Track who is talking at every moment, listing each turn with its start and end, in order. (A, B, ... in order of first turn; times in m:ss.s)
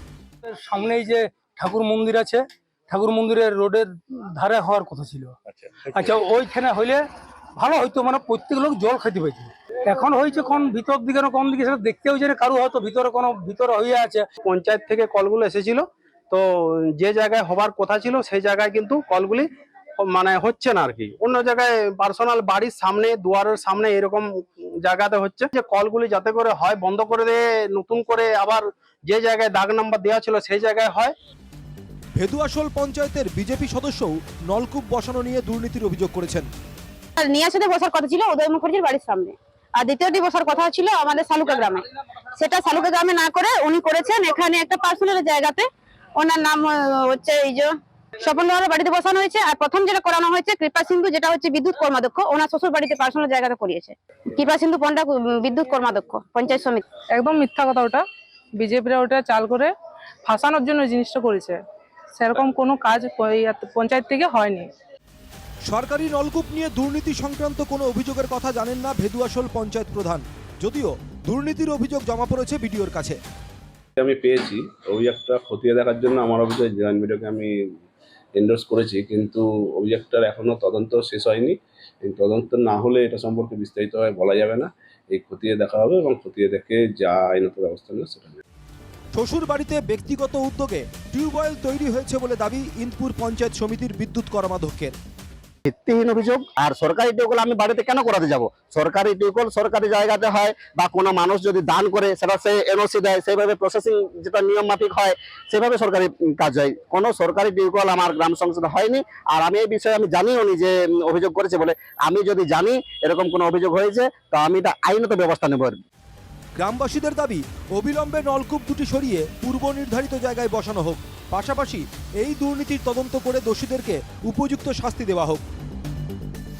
0:00.5-0:07.0 A
0:07.6-0:14.2 A
0:14.4-0:19.5 B
0:20.0-0:31.1 B
0:32.2-0:36.5 C
0:37.2-0:56.8 D
0:57.1-0:58.0 E
0:58.6-0:59.7 E
1:00.2-1:01.6 E
1:02.2-1:04.7 E
1:05.7-1:13.2 C
1:14.0-1:17.5 F
1:18.4-1:28.4 F
1:29.2-1:34.9 C
1:35.7-1:55.8 G
1:56.6-2:05.4 C